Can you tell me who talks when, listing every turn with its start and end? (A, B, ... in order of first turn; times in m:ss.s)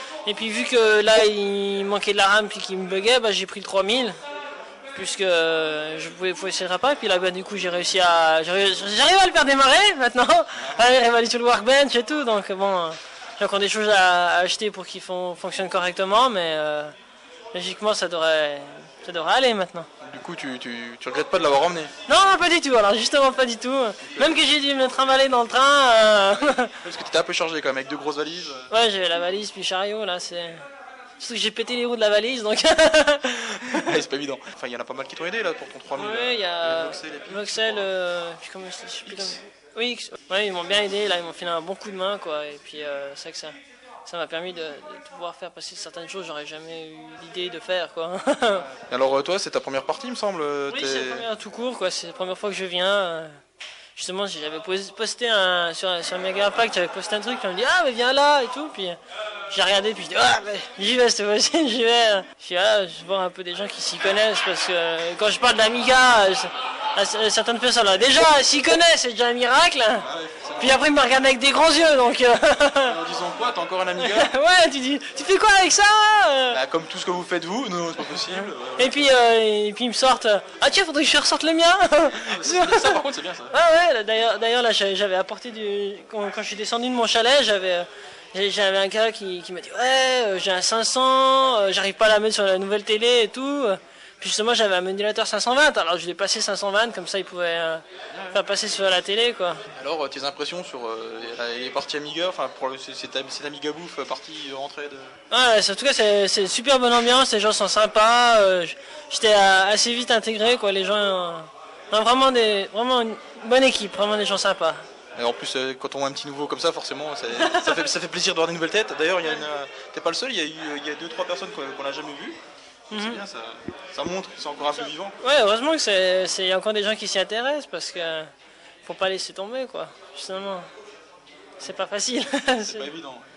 0:00.2-0:04.2 A
0:04.9-0:16.9 A
0:17.5-0:19.9 A
0:20.0-0:21.9 B
0:22.1-0:26.8 A
0:26.8-0:28.7 B
0:28.7-0:30.6 A
0:31.2-0:34.0 A
0:33.8-0:37.8 B
0:35.9-0:43.6 A
0:39.1-0:39.4 B
0:44.1-0:48.7 A
0:48.9-0:51.2 B
0:50.7-0:53.4 A
0:54.0-0:59.0 A
0:59.5-1:10.1 A
1:10.0-1:10.8 B
1:10.6-1:13.0 A
1:12.9-1:14.3 B
1:14.0-1:16.6 A
1:16.5-1:18.9 B
1:18.8-1:23.0 A
1:22.2-1:23.5 B
1:23.5-1:39.6 A
1:39.8-1:45.1 B
1:45.3-1:54.8 A
1:55.2-2:02.4 B
1:57.4-1:57.9 A
2:02.9-2:03.2 A
2:02.9-2:05.2 B
2:05.2-2:08.3 A
2:08.8-2:10.7 A
2:11.6-2:12.9 A
2:12.6-2:13.3 B